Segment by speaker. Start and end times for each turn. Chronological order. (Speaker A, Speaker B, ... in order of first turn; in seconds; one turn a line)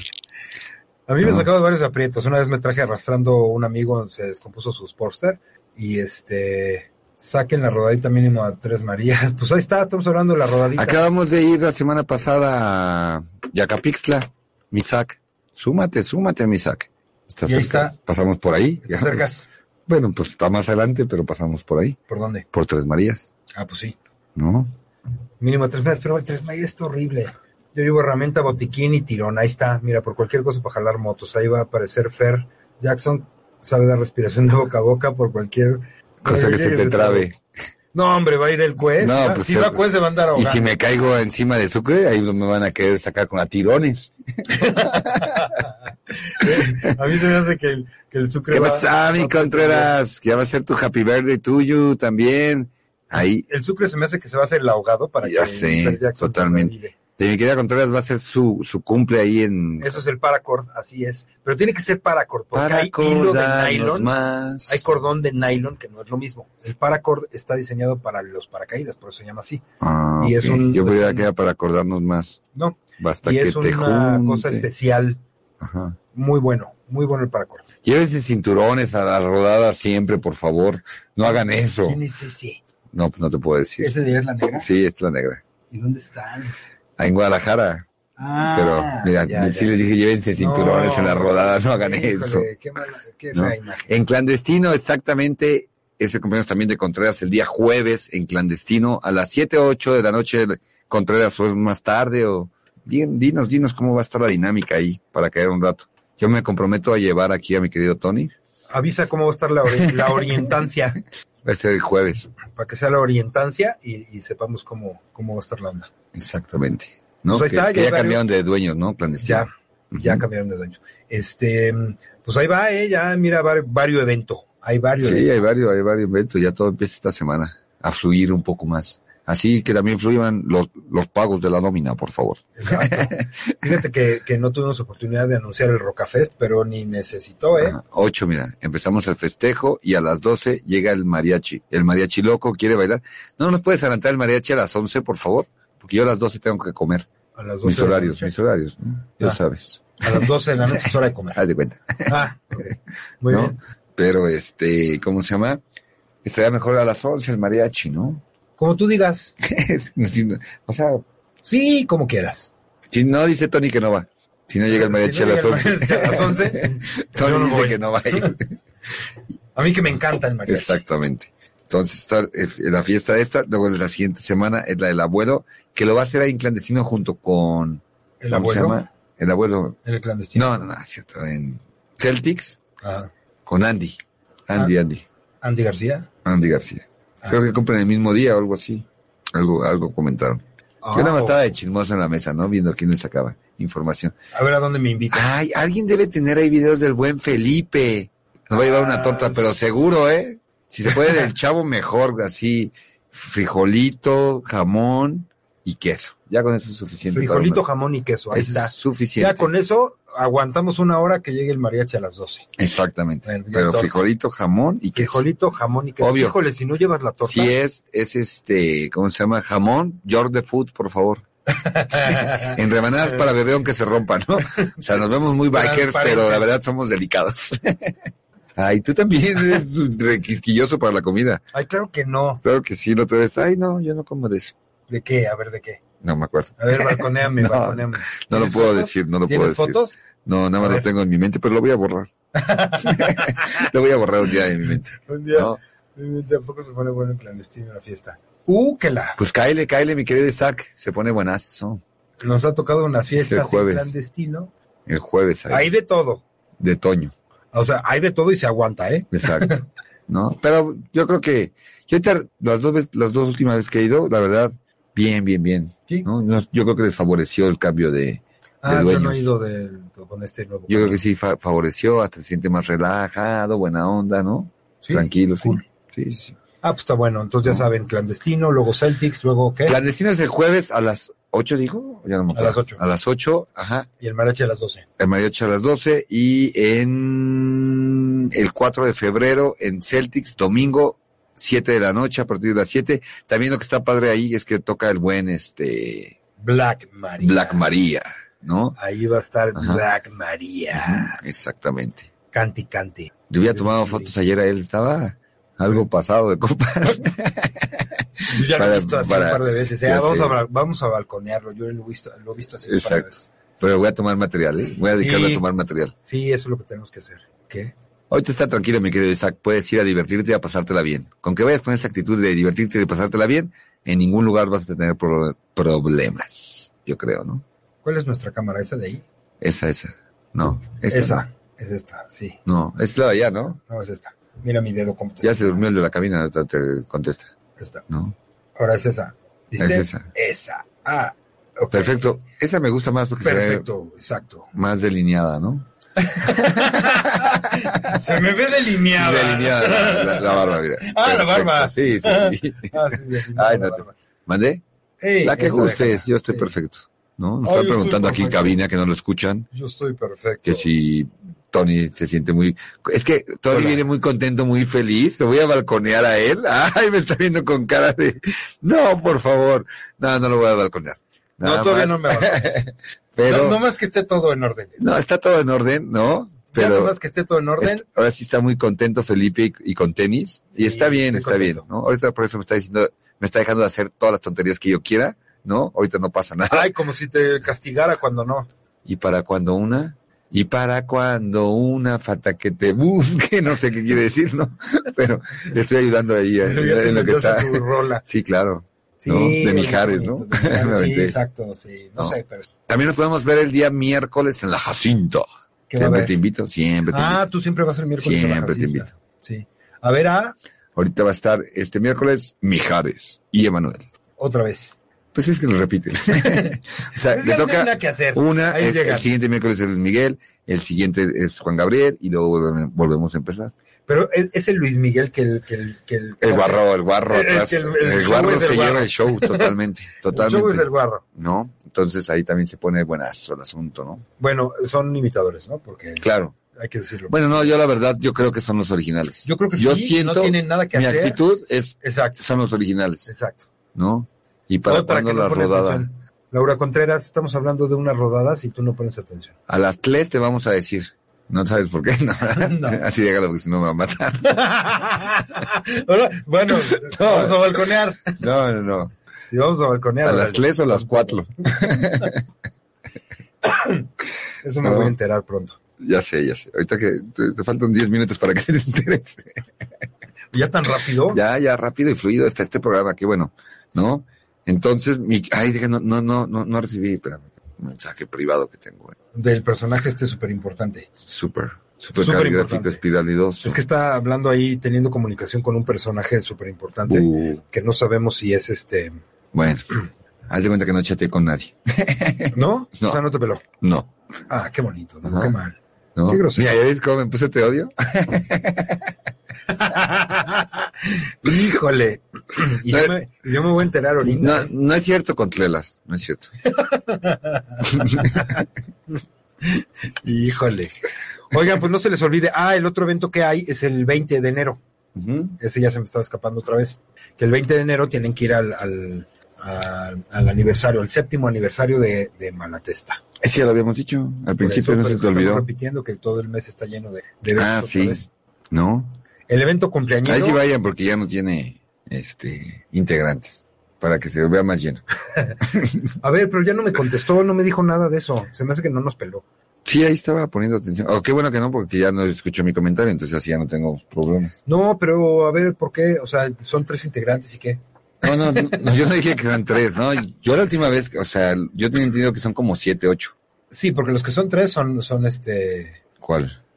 Speaker A: 1.1-11.0
Speaker B: 10.8-19.3
Speaker A: 17.4-18.0
Speaker A: 18.8-19.5
Speaker B: 19.9-22.0
Speaker A: 22.1-22.5
Speaker B: 22.5-23.3
Speaker A: 23.6-24.0
Speaker B: 24.4-24.7
Speaker A: 25.4-37.3
Speaker B: 36.2-37.4
Speaker A: 37.9-40.7
Speaker B: 39.0-45.6
Speaker A: 44.5-49.9
Speaker B: 46.5-47.0
Speaker B: 48.5-53.5
Speaker A: 53.1-57.0
Speaker B: 55.2-60.0
Speaker A: 59.8-64.1
Speaker B: 62.5-64.8
Speaker A: 64.7-69.6
Speaker B: 69.8-72.4
Speaker A: 70.2-71.3
Speaker A: 72.5-75.2
Speaker B: 73.0-74.7
Speaker B: 75.6-76.0
Speaker A: 76.1-77.7
Speaker B: 77.8-82.0
Speaker A: 81.2-82.6
Speaker B: 82.9-84.0
Speaker A: 83.8-84.7
Speaker B: 84.6-85.4
Speaker A: 85.7-86.6
Speaker B: 87.0-87.9
Speaker A: 88.2-89.8
Speaker B: 88.5-92.5
Speaker A: 90.3-94.0
Speaker B: 93.3-108.3
Speaker A: 108.7-111.0
Speaker B: 109.8-110.5
Speaker B: 111.4-112.3
Speaker A: 112.5-115.9
Speaker B: 116.1-120.2
Speaker A: 117.3-118.2
Speaker A: 119.2-125.3
Speaker B: 125.0-133.5
Speaker A: 132.6-137.8
Speaker B: 137.6-147.1
Speaker A: 147.4-148.3
Speaker B: 147.6-152.7
Speaker A: 150.0-151.4
Speaker A: 152.1-153.6
Speaker B: 153.3-155.6
Speaker B: 156.2-158.2
Speaker A: 158.6-159.3
Speaker B: 159.4-161.0
Speaker A: 161.4-162.5
Speaker B: 162.9-168.6
Speaker A: 164.7-168.3
Speaker A: 169.6-170.8
Speaker B: 170.5-179.8
Speaker A: 178.2-178.8
Speaker A: 179.8-180.7
Speaker B: 180.3-182.6
Speaker A: 182.8-183.1
Speaker B: 183.5-185.1
Speaker A: 185.4-186.1
Speaker B: 186.2-194.2
Speaker A: 190.8-191.4
Speaker A: 194.3-195.3
Speaker B: 195.1-207.6
Speaker A: 198.5-199.8
Speaker A: 207.1-212.5
Speaker B: 208.3-209.5
Speaker B: 212.6-215.2
Speaker A: 213.2-214.0
Speaker A: 214.9-217.5
Speaker B: 216.0-216.4
Speaker B: 217.2-221.2
Speaker A: 221.5-222.6
Speaker B: 222.1-228.0
Speaker A: 225.5-226.5
Speaker B: 228.6-231.4
Speaker A: 231.5-232.4
Speaker B: 232.4-234.5
Speaker A: 234.9-235.8
Speaker B: 236.0-242.1
Speaker A: 236.6-240.0
Speaker A: 240.6-240.9
Speaker A: 242.3-243.7
Speaker B: 242.8-245.6
Speaker A: 245.0-249.2
Speaker B: 249.2-251.8
Speaker A: 252.2-254.5
Speaker B: 253.2-254.0
Speaker B: 254.9-255.7
Speaker A: 255.5-256.2
Speaker B: 256.6-257.1
Speaker A: 257.5-259.6
Speaker B: 259.1-269.3
Speaker A: 268.6-271.0
Speaker B: 270.7-276.4
Speaker A: 274.8-275.6
Speaker A: 276.6-279.8
Speaker B: 279.7-283.9
Speaker A: 282.3-282.8
Speaker A: 284.0-284.9
Speaker B: 285.0-296.2
Speaker A: 296.4-297.7
Speaker B: 297.2-298.8
Speaker A: 298.8-301.1
Speaker B: 299.6-299.8
Speaker B: 300.7-302.1
Speaker A: 302.3-304.1
Speaker B: 303.3-310.4
Speaker A: 308.3-313.3
Speaker B: 312.7-313.1
Speaker B: 313.6-315.9
Speaker A: 314.9-315.4
Speaker A: 316.0-317.7
Speaker B: 318.1-327.4
Speaker A: 327.8-329.0
Speaker B: 329.4-331.3
Speaker A: 330.9-332.4
Speaker B: 332.5-333.6
Speaker A: 333.7-335.6
Speaker B: 335.2-337.3
Speaker A: 337.6-337.8
Speaker B: 337.9-338.1
Speaker A: 338.6-342.1
Speaker B: 339.6-340.1
Speaker B: 341.7-343.7
Speaker A: 343.2-344.5
Speaker B: 344.5-345.7
Speaker A: 346.0-353.9
Speaker B: 346.2-348.2
Speaker B: 348.9-354.6
Speaker A: 355.0-356.5
Speaker B: 355.2-359.5
Speaker A: 357.4-358.6
Speaker A: 359.5-360.7
Speaker B: 360.4-373.6
Speaker A: 363.5-363.8
Speaker A: 371.4-372.7
Speaker A: 373.2-374.8
Speaker B: 374.8-376.9
Speaker A: 376.5-377.9
Speaker B: 377.6-386.7
Speaker A: 380.6-381.7
Speaker A: 386.5-388.5
Speaker B: 388.9-401.2
Speaker A: 396.4-398.0
Speaker A: 399.0-402.5
Speaker B: 402.7-407.2
Speaker A: 405.7-406.1
Speaker A: 406.9-410.4
Speaker B: 408.0-408.9
Speaker B: 410.8-413.9
Speaker A: 414.2-414.8
Speaker B: 415.1-423.5
Speaker A: 416.2-419.1
Speaker A: 423.9-429.5
Speaker B: 426.2-434.1
Speaker A: 430.1-431.0
Speaker A: 434.2-437.5
Speaker B: 436.0-436.3
Speaker B: 437.1-443.1
Speaker A: 439.2-441.2
Speaker A: 441.8-442.2
Speaker A: 443.1-443.5
Speaker B: 443.8-445.9
Speaker A: 444.6-449.3
Speaker B: 449.5-454.4
Speaker A: 452.4-452.8
Speaker A: 454.2-458.2
Speaker B: 456.6-457.6
Speaker B: 458.2-458.9
Speaker A: 459.3-462.1
Speaker B: 460.0-462.2
Speaker A: 463.4-463.9
Speaker A: 464.4-465.6
Speaker B: 464.6-464.9
Speaker B: 465.8-469.4
Speaker A: 470.3-471.2
Speaker B: 471.1-479.0
Speaker A: 479.1-480.9
Speaker B: 481.0-483.6
Speaker A: 482.0-482.8
Speaker A: 483.4-489.0
Speaker B: 486.9-487.4
Speaker B: 489.3-489.7
Speaker B: 490.3-493.0
Speaker A: 492.3-493.4
Speaker B: 493.6-493.9
Speaker A: 494.3-496.5
Speaker B: 495.1-495.3
Speaker B: 496.0-498.9
Speaker A: 499.5-504.5
Speaker B: 504.0-506.3
Speaker A: 506.5-508.4
Speaker B: 507.7-508.4
Speaker A: 509.4-510.7
Speaker A: 511.3-514.6
Speaker B: 515.0-515.4
Speaker A: 515.4-523.0
Speaker B: 523.2-525.5
Speaker A: 524.4-528.1
Speaker B: 527.3-528.9
Speaker A: 529.3-530.4
Speaker B: 530.0-534.8
Speaker B: 535.4-535.9
Speaker A: 536.0-539.2
Speaker B: 539.6-544.4
Speaker A: 544.5-548.7
Speaker B: 548.0-553.1
Speaker A: 553.5-555.8
Speaker B: 556.0-556.4